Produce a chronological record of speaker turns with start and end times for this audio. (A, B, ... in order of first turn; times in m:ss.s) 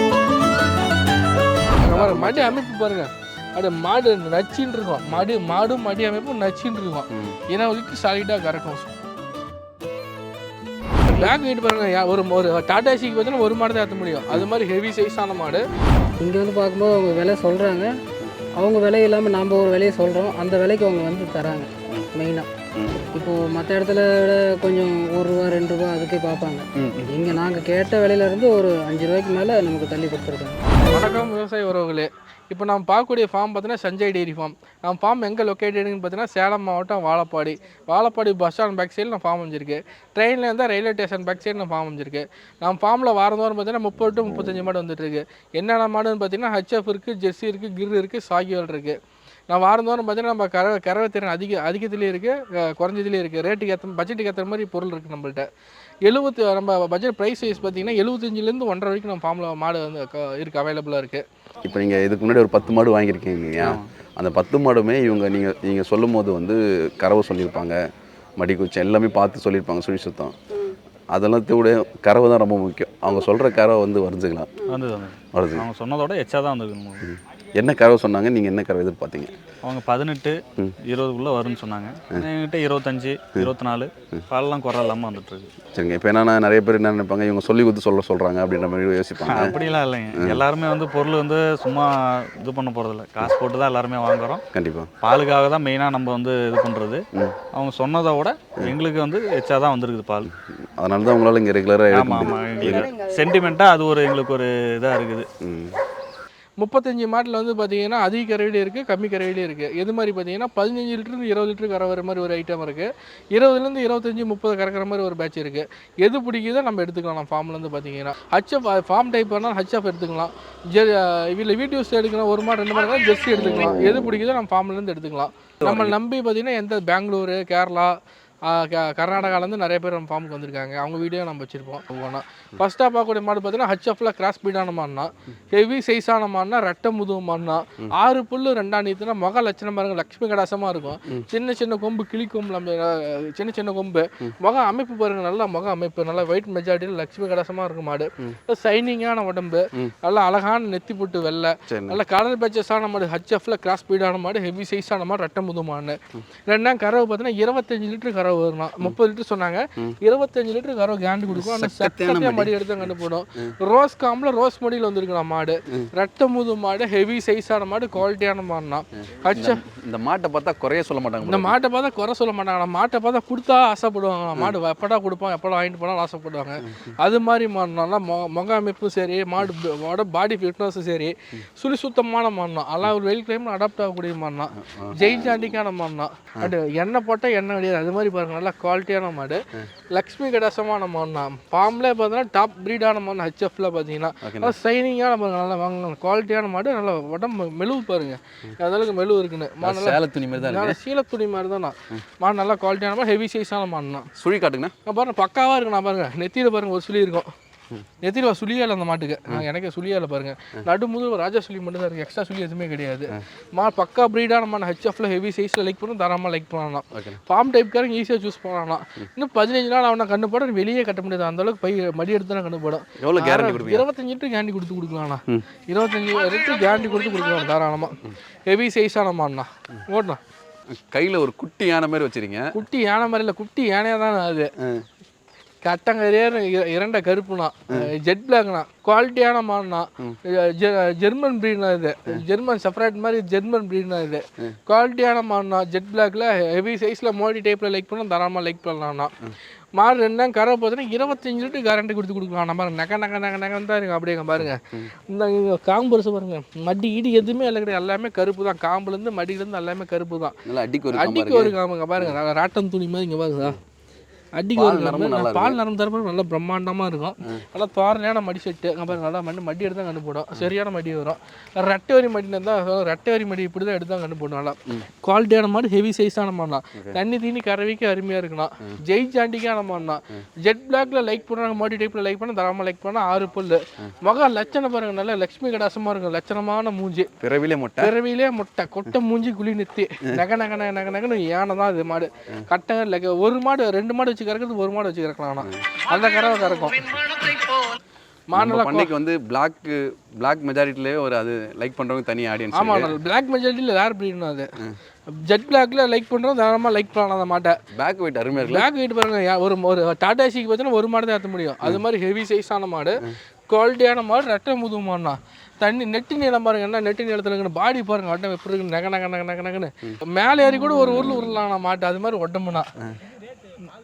0:01.8-0:08.8 A
0:01.8-0:02.6 B
0:11.0-0:11.3 B
0:11.1-0:15.6 A
0:16.2-0:18.0 C
0:18.6-0:30.6 C
0:26.8-0:27.3 B
0:30.8-0:49.0 A
0:49.5-0:55.5 A
0:56.0-1:01.2 A
1:01.6-1:07.8 B
1:03.6-1:03.9 D
1:08.4-1:10.4 B
1:11.1-1:14.5 B
1:14.7-1:17.1 D
1:15.3-1:15.6 B
1:17.0-1:19.3 B
1:19.6-1:25.5 D
1:25.7-1:29.6 B
1:29.2-1:34.4 D
1:30.2-1:30.4 B
1:34.5-1:34.9 B
1:35.0-1:37.0 D
1:37.5-1:40.3 D
1:40.3-1:42.9 B
1:41.9-1:45.3 D
1:42.2-1:43.4 C
1:45.4-1:45.8 B
1:46.6-2:49.6 A
2:05.6-2:06.0 B
2:31.7-2:32.0 B
2:41.3-2:42.9 B
2:49.3-2:51.6 B
2:51.2-3:09.4 A
3:04.6-3:05.5 B
3:09.9-3:24.1 A
3:14.2-3:14.6 B
3:19.6-3:20.8 B
3:24.2-3:24.7 B
3:24.8-3:27.3 A
3:28.0-3:48.0 A
3:36.9-3:37.2 B
3:43.0-3:43.9 B
3:48.5-3:50.2 A
3:50.7-3:52.6 B
3:52.5-3:54.5 A
3:55.6-4:09.1 A
4:09.8-4:20.4 A
4:14.4-4:14.9 B
4:20.5-4:22.2 B
4:20.9-4:23.6 A
4:24.4-4:47.1 A
4:24.5-4:25.6 B
4:47.2-4:47.9 B
4:47.8-4:57.6 A
4:55.4-4:55.7 B
4:58.3-4:58.9 A
4:58.4-5:02.9 B
5:02.5-5:04.5 A
5:05.1-5:07.6 A
5:07.7-5:08.7 B
5:08.4-5:22.7 A